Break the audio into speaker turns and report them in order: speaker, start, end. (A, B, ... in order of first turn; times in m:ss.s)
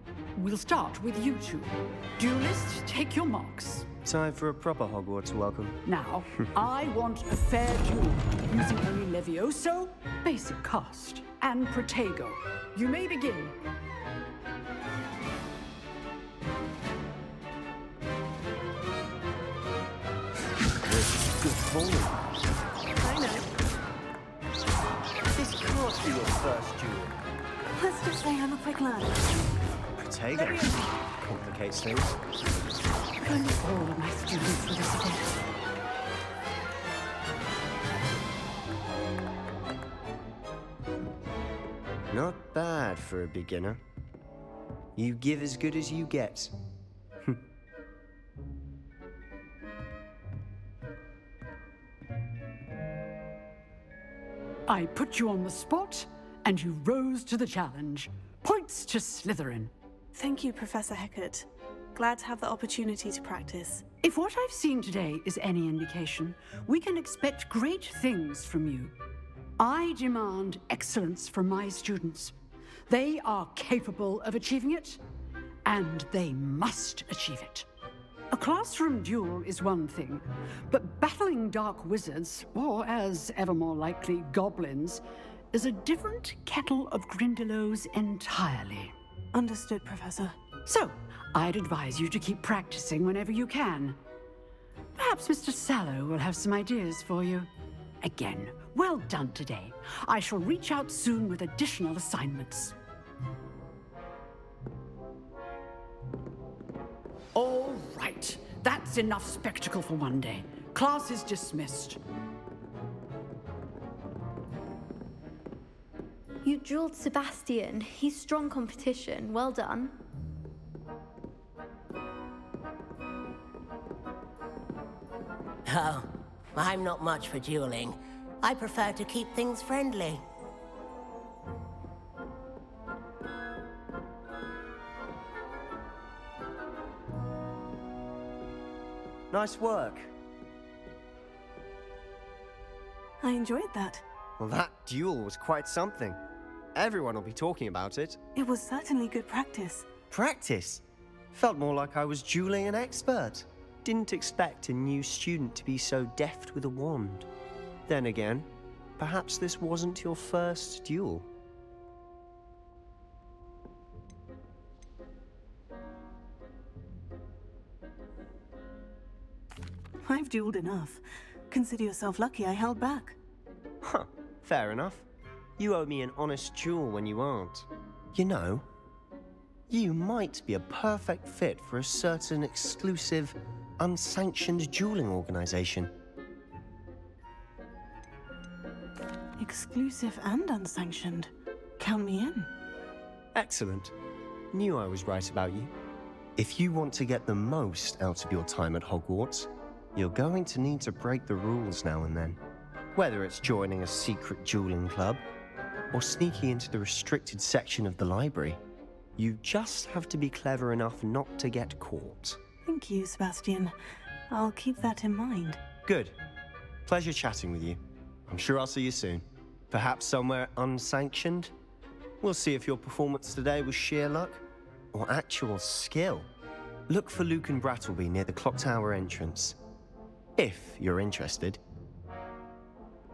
0:00.4-0:03.9 A
0:04.0-0:05.8 B
0:05.8-0:13.6 A
0:20.8-0:22.2 B
0:25.3-0:27.2 B
0:27.8-0:29.2 C
0:30.0-0:30.7 B
0:31.2-0:32.2 B
0:33.2-0:35.4 A
0:42.1-0:43.8 B
0:45.0-0:46.5 B
0:54.7-0:59.7 A
1:00.2-1:03.8 C
1:04.0-1:08.9 A
1:09.6-1:12.3 A
1:12.9-1:15.0 A
1:15.6-1:17.7 A
1:18.3-1:28.9 A
1:29.3-1:30.3 C
1:30.6-1:34.0 A
1:35.0-1:37.5 A
1:38.0-1:42.8 A
1:47.3-1:52.0 A
1:56.4-2:00.0 D
2:05.6-2:10.2 E
2:19.3-2:20.1 B
2:23.2-2:24.0 C
2:24.4-2:26.2 B
2:26.7-2:28.2 B
2:28.4-2:29.9 C
2:30.1-2:37.3 B
2:37.9-2:41.3 B
2:50.1-2:53.2 C
2:53.8-2:55.0 B
2:55.6-2:58.6 B
2:59.7-3:05.9 B
3:09.4-3:12.5 C
3:13.3-3:13.9 B
3:14.5-3:15.7 B
3:16.4-3:22.4 B
3:23.0-3:25.2 B
3:25.9-3:28.6 B
3:29.2-3:32.4 B
3:32.6-3:33.7 C
3:34.3-3:35.6 C
3:35.8-3:36.1 B
3:36.8-3:41.5 B
3:42.2-3:46.3 B
3:46.9-3:49.6 B
3:50.4-3:51.6 B